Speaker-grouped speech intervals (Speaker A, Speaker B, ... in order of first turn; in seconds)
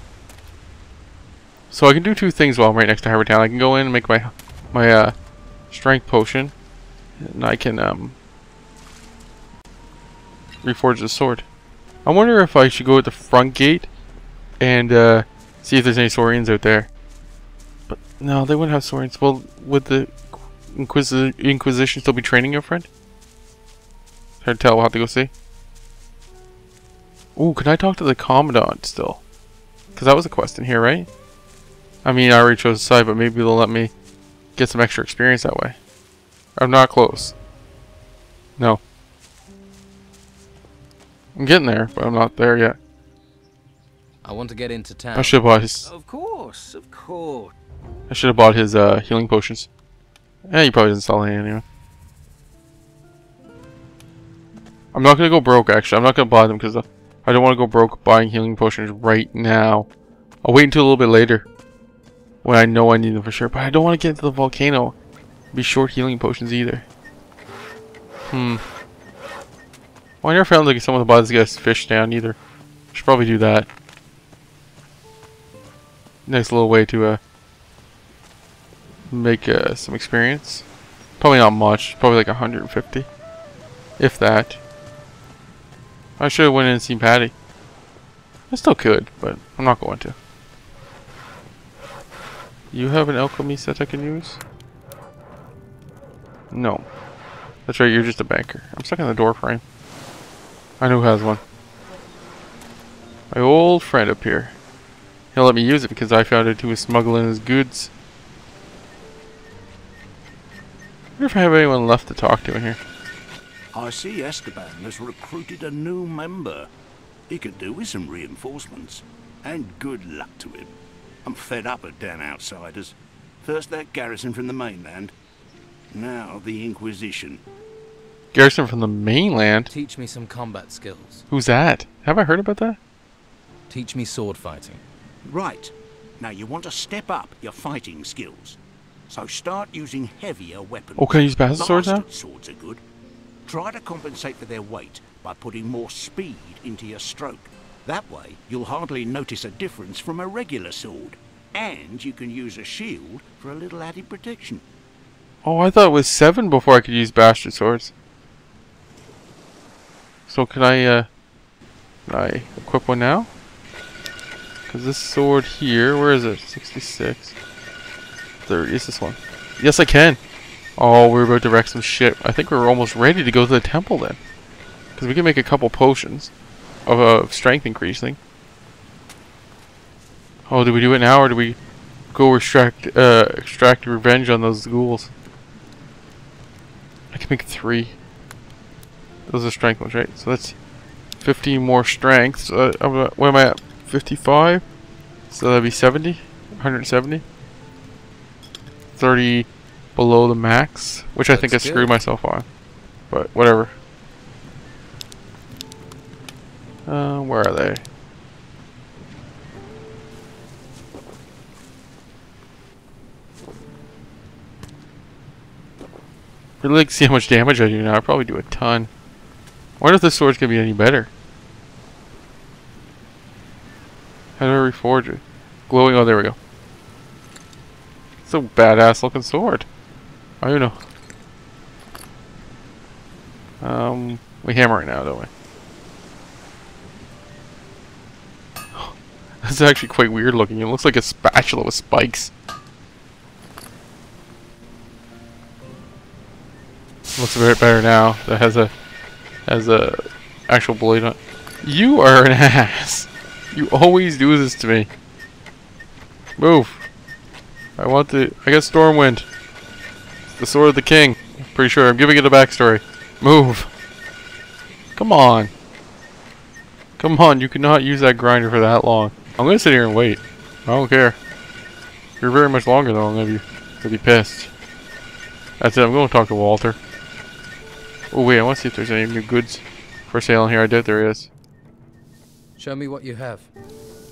Speaker A: 1.7-5.1, 5.7-6.5, 7.2-8.2, 10.6-11.4, 12.0-13.9, 14.6-16.9, 17.9-22.9, 24.4-25.3, 27.4-29.2, 29.9-31.1, 32.0-33.9, 34.5-35.8, 36.5-37.4, 41.4-42.8, 45.1-45.9, 48.1-49.7, 50.5-51.6, 54.9-59.9, 60.4-61.5, 62.4-65.0, 65.5-66.8, 68.3-68.6, 70.2-72.4, 72.9-73.7, 76.2-77.2, 79.1-80.6, 81.2-83.1, 84.0-84.6, 86.2-87.3, 88.5-90.2, 92.7-94.4, 96.5-96.9, 97.7-99.6, 100.8-101.4, 103.3-104.5, 105.3-107.9, 111.2-112.8, 128.3-129.7, 131.3-132.8, 141.0-142.0, 155.4-157.9, 160.3-161.1, 162.1-163.3, 164.7-167.3, 168.4-170.2, 170.8-174.2, 174.9-176.3, 176.8-178.2, 180.5-181.6, 182.1-185.1, 187.1-188.0, 189.3-190.6, 191.2-194.6, 195.3-197.2, 198.9-202.4, 203.1-203.7, 206.8-207.8, 216.6-218.9, 219.8-221.1, 224.4-226.4, 228.2-229.7, 230.4-230.8, 233.6-235.3, 238.7-242.3, 247.2-248.7, 249.4-254.9, 256.4-256.8, 257.8-259.3, 260.3-263.7, 264.9-265.5, 267.0-271.2, 272.2-274.5, 275.6-276.8, 278.1-281.3
Speaker B: 44.2-45.4, 46.0-47.5, 129.7-131.3, 133.7-134.8, 201.3-202.0, 282.6-283.5
Speaker C: 113.7-116.7, 117.3-125.1, 125.9-127.4, 135.2-138.6, 139.1-142.8, 143.4-154.6